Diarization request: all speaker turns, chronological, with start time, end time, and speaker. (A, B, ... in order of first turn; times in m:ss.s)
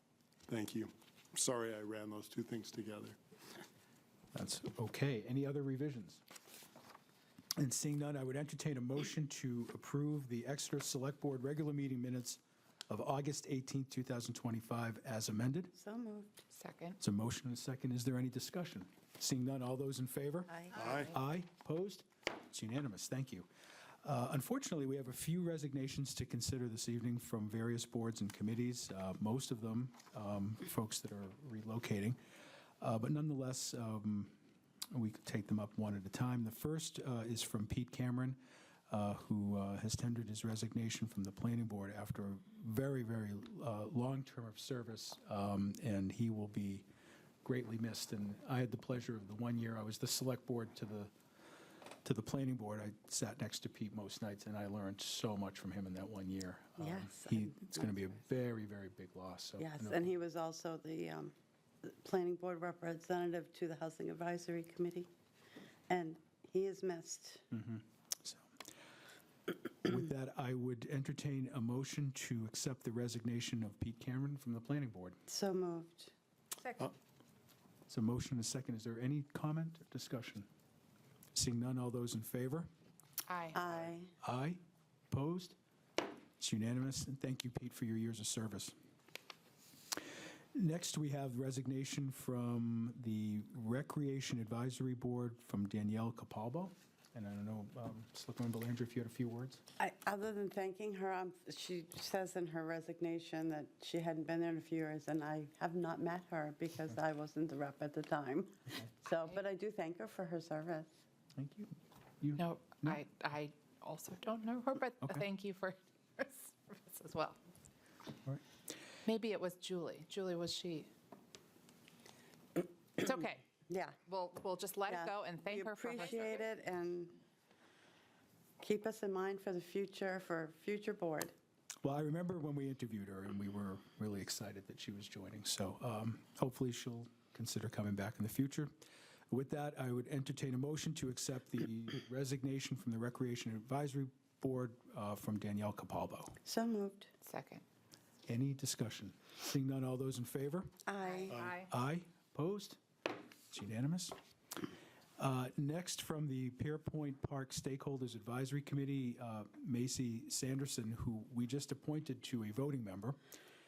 0:00.5-0:03.2 A
0:04.3-0:06.2 B
0:07.6-0:15.7 B
0:15.7-0:16.4 C
0:16.5-0:17.0 D
0:17.0-0:23.5 B
0:20.5-0:21.0 C
0:20.7-0:21.1 A
0:24.0-0:32.2 B
0:32.8-0:34.4 B
0:34.9-0:38.4 B
0:38.9-0:46.9 B
0:47.4-0:51.1 B
0:52.0-1:00.1 B
0:56.8-0:57.7 C
0:59.6-1:05.1 C
1:05.9-1:07.5 C
1:07.5-1:08.5 B
1:09.8-1:15.2 B
1:15.3-1:16.1 C
1:17.9-1:20.5 B
1:21.3-1:22.7 B
1:23.3-1:23.6 D
1:23.5-1:24.1 C
1:24.2-1:25.6 B
1:26.4-1:28.7 B
1:30.5-1:39.6 B
1:39.8-1:50.9 C
1:51.4-1:53.0 B
1:52.4-1:57.4 D
1:59.0-2:00.9 D
2:03.0-2:03.5 D
2:03.6-2:04.0 C
2:04.1-2:06.4 D
2:04.9-2:07.2 C
2:08.6-2:11.3 C
2:11.8-2:18.7 B
2:19.3-2:26.4 B
2:26.4-2:27.1 C
2:27.2-2:27.6 D
2:28.2-2:30.7 B
2:30.9-2:31.3 C
2:31.0-2:31.7 D
2:31.3-2:31.6 A
2:31.7-2:32.8 B
2:33.5-2:34.2 B
2:35.2-2:43.2 B